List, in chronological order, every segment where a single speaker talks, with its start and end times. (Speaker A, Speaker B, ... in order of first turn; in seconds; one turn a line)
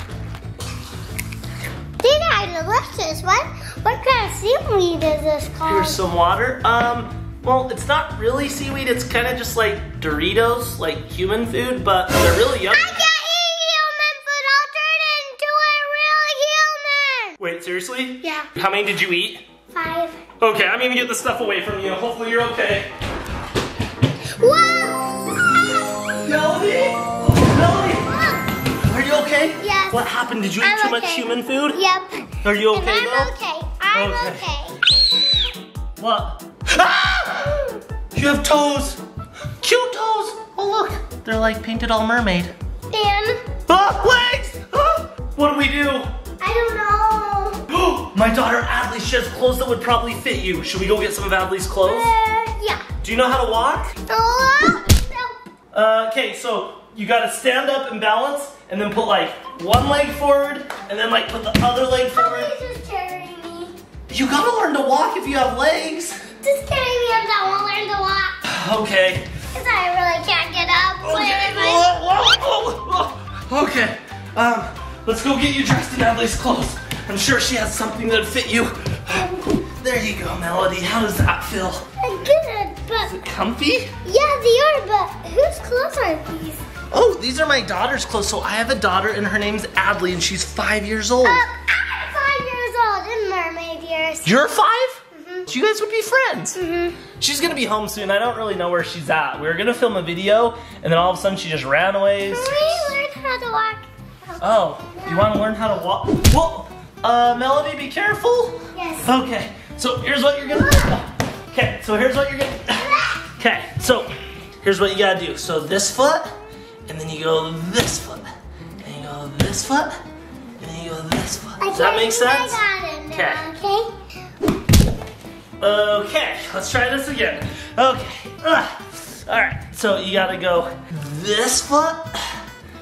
Speaker A: 2.0-6.0
Speaker B: 5.7-13.0
Speaker A: 12.7-17.4
Speaker B: 17.4-19.4
Speaker A: 18.2-18.5
Speaker A: 19.7-20.2
Speaker B: 20.4-22.9
Speaker A: 24.4-26.1
Speaker B: 26.2-28.1
Speaker A: 28.0-28.5
Speaker B: 28.8-31.8
Speaker A: 29.6-30.1
Speaker A: 30.6-34.8
Speaker B: 32.4-33.4
Speaker B: 33.9-34.5
Speaker B: 36.0-37.6
Speaker B: 38.1-39.0
Speaker B: 39.6-42.5
Speaker A: 42.9-43.4
Speaker B: 43.7-46.1
Speaker A: 46.4-47.6
Speaker B: 47.7-52.1
Speaker A: 51.8-52.9
Speaker B: 53.0-53.9
Speaker A: 54.1-55.4
Speaker B: 55.7-62.5
Speaker A: 62.1-63.7
Speaker B: 64.1-66.2
Speaker A: 66.4-68.4
Speaker B: 68.5-69.3
Speaker A: 69.5-71.9
Speaker B: 71.0-81.9
Speaker A: 82.0-83.1
Speaker B: 83.0-83.9
Speaker A: 84.0-86.6
Speaker B: 86.9-91.5
Speaker A: 91.2-94.5
Speaker B: 94.2-96.6
Speaker A: 95.1-95.4
Speaker A: 96.6-97.0
Speaker B: 97.2-103.0
Speaker A: 102.2-105.3
Speaker B: 104.4-116.3
Speaker A: 108.7-109.1
Speaker A: 110.6-110.9
Speaker A: 112.8-113.2
Speaker B: 116.9-120.0
Speaker B: 120.6-123.4
Speaker A: 121.6-123.9
Speaker B: 125.6-132.4